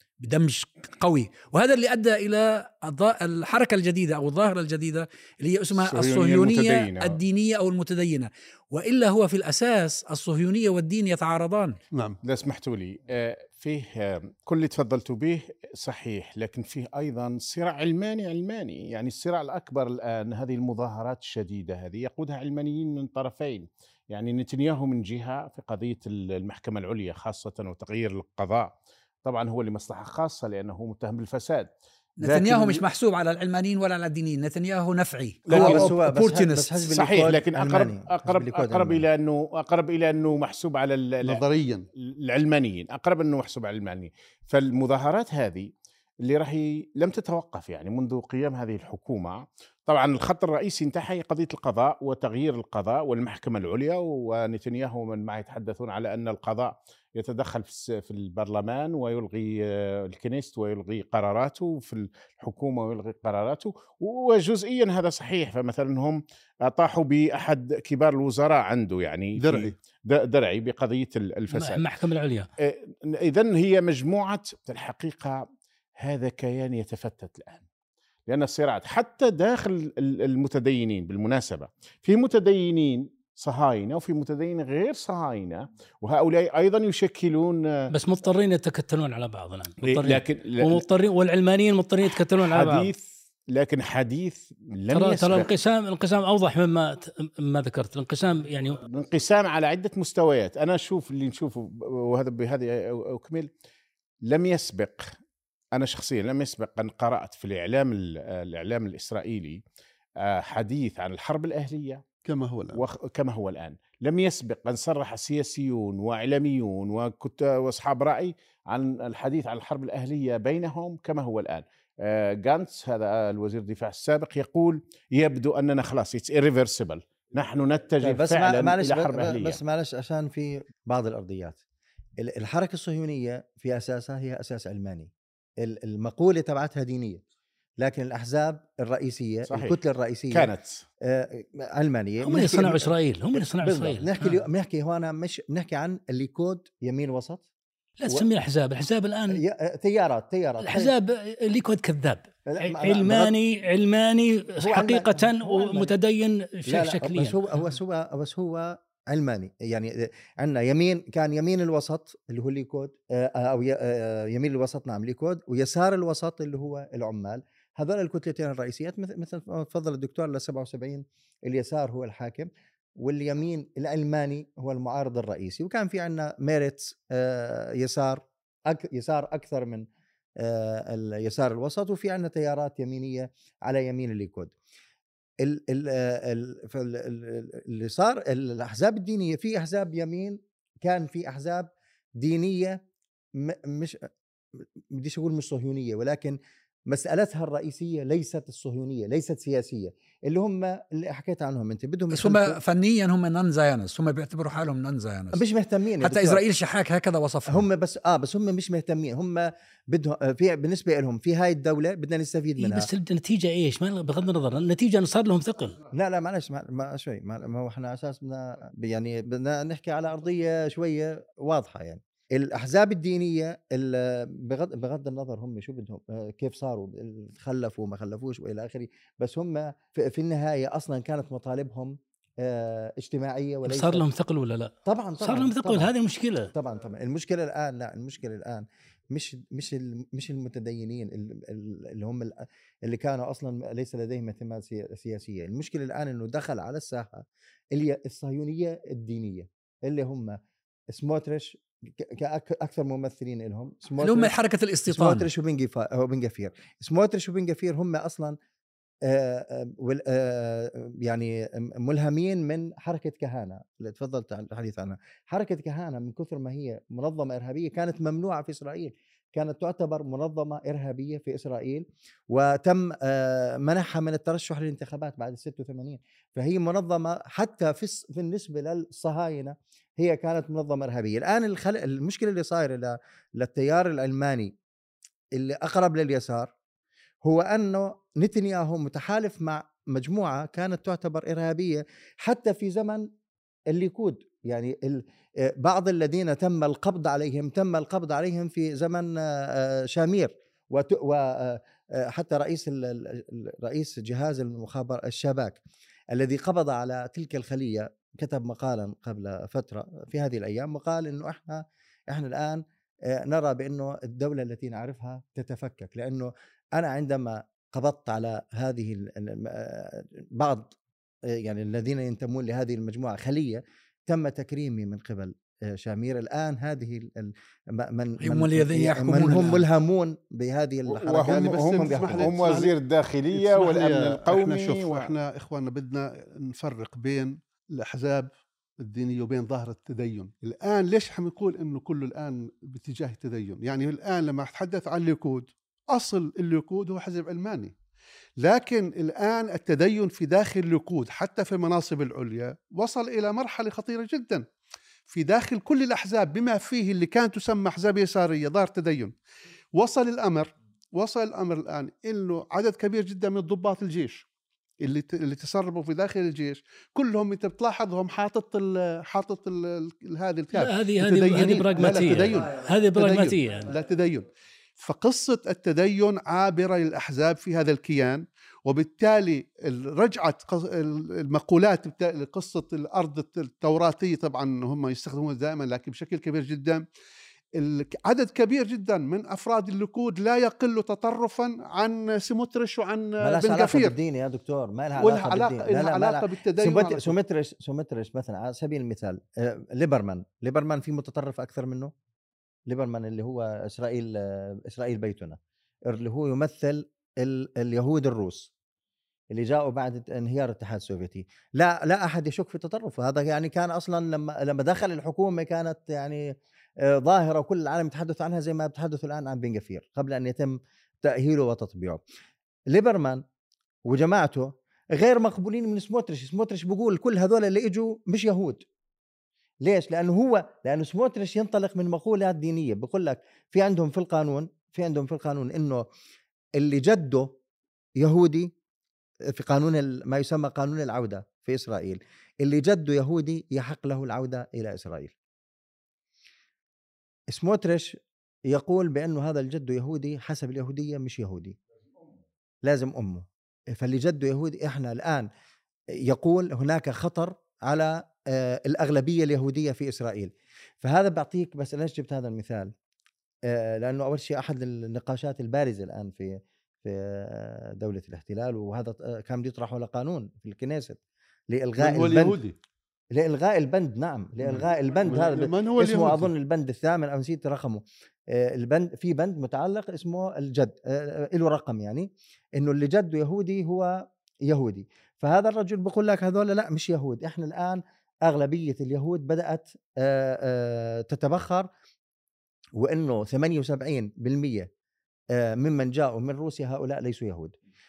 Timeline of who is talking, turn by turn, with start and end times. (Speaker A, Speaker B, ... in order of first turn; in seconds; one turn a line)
Speaker A: 0.2-11.8
Speaker B: 5.7-7.2
Speaker C: 11.9-12.2
Speaker B: 12.2-31.7
Speaker A: 32.2-36.9
Speaker B: 32.2-32.8
Speaker B: 35.5-35.8
Speaker D: 35.5-39.0
Speaker B: 36.9-41.4
Speaker C: 41.2-41.9
Speaker B: 42.0-45.7
Speaker B: 46.2-71.8
Speaker C: 69.4-69.7
Speaker E: 71.5-72.5
Speaker B: 72.6-75.4
Speaker B: 76.0-77.6
Speaker B: 78.3-87.9
Speaker E: 87.9-92.9
Speaker B: 89.8-90.8
Speaker B: 92.0-95.5
Speaker E: 94.9-98.8
Speaker B: 98.9-103.5
Speaker B: 104.2-105.2
Speaker B: 105.7-109.6
Speaker B: 110.2-112.0
Speaker C: 112.2-112.8
Speaker B: 112.7-129.6
Speaker D: 128.0-131.6
Speaker D: 132.2-137.2
Speaker D: 137.8-140.5
Speaker B: 139.5-139.8
Speaker B: 140.3-140.8
Speaker D: 141.0-147.4
Speaker E: 142.2-144.4
Speaker E: 148.0-149.4
Speaker D: 149.3-150.9
Speaker E: 150.6-157.4
Speaker D: 152.5-153.3
Speaker D: 154.6-155.9
Speaker D: 156.7-179.8
Speaker D: 180.4-184.5
Speaker D: 185.4-192.8
Speaker D: 193.3-194.1
Speaker D: 194.6-196.4
Speaker D: 196.9-202.6
Speaker A: 202.1-205.4
Speaker D: 205.3-206.4
Speaker A: 206.0-207.7
Speaker D: 207.5-212.9
Speaker E: 212.6-215.8
Speaker D: 215.9-234.0
Speaker E: 233.7-236.5
Speaker D: 234.8-235.9
Speaker D: 236.5-250.4
Speaker D: 250.9-254.3
Speaker A: 254.0-255.3
Speaker D: 254.9-258.4
Speaker D: 259.0-284.5
Speaker D: 285.3-286.5
Speaker D: 287.2-293.1
Speaker D: 293.7-305.6
Speaker D: 306.1-320.7
Speaker D: 321.3-332.3
Speaker A: 328.2-329.6
Speaker B: 330.9-335.1
Speaker C: 331.2-332.7
Speaker C: 333.3-338.3
Speaker C: 338.8-347.7
Speaker C: 348.4-354.4
Speaker C: 355.1-359.1
Speaker C: 359.8-364.2
Speaker C: 364.8-374.3
Speaker E: 370.5-373.7
Speaker C: 374.8-386.8
Speaker C: 387.6-393.9
Speaker D: 393.2-401.9
Speaker C: 395.0-397.1
Speaker D: 402.7-408.5
Speaker D: 409.3-422.0
Speaker D: 422.7-423.2
Speaker D: 423.9-428.6
Speaker D: 429.6-435.9
Speaker D: 436.6-437.4
Speaker D: 438.0-438.5
Speaker D: 439.3-445.1
Speaker D: 447.3-451.6
Speaker D: 452.6-455.3
Speaker D: 455.9-462.7
Speaker D: 463.5-471.0
Speaker D: 471.5-472.4
Speaker C: 471.8-472.6
Speaker D: 473.1-491.7
Speaker C: 474.4-476.3
Speaker D: 492.8-494.7
Speaker D: 495.3-497.5